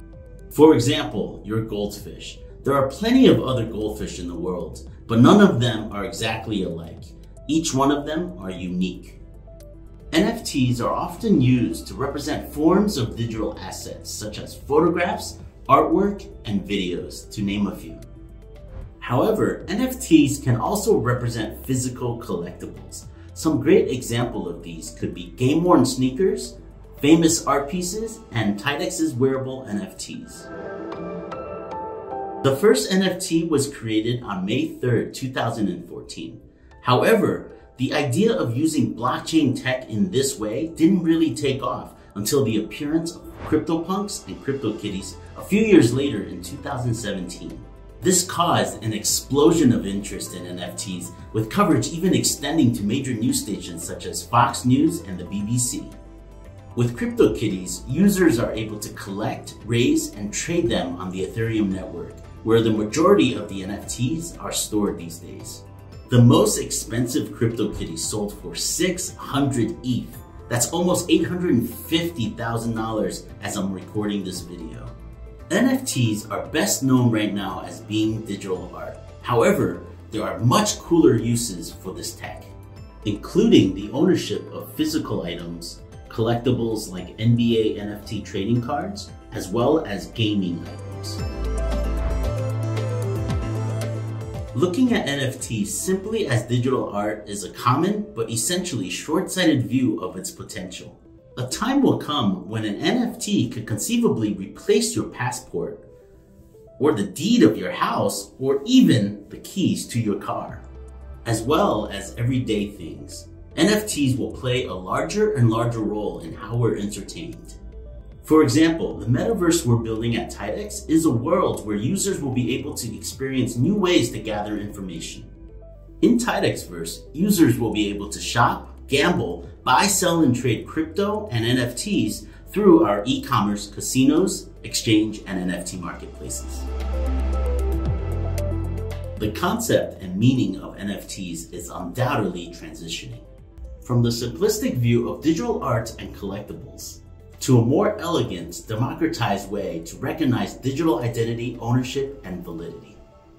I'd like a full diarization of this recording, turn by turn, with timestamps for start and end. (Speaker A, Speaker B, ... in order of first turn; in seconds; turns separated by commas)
Speaker A: 0.5-9.2, Speaker A: 10.1-18.0, Speaker A: 19.0-30.5, Speaker A: 32.4-55.9, Speaker A: 56.8-74.9, Speaker A: 75.5-91.2, Speaker A: 94.5-105.8, Speaker A: 106.8-110.6, Speaker A: 111.2-117.6, Speaker A: 118.2-125.3, Speaker A: 126.0-136.7, Speaker A: 139.2-143.2, Speaker A: 143.8-153.0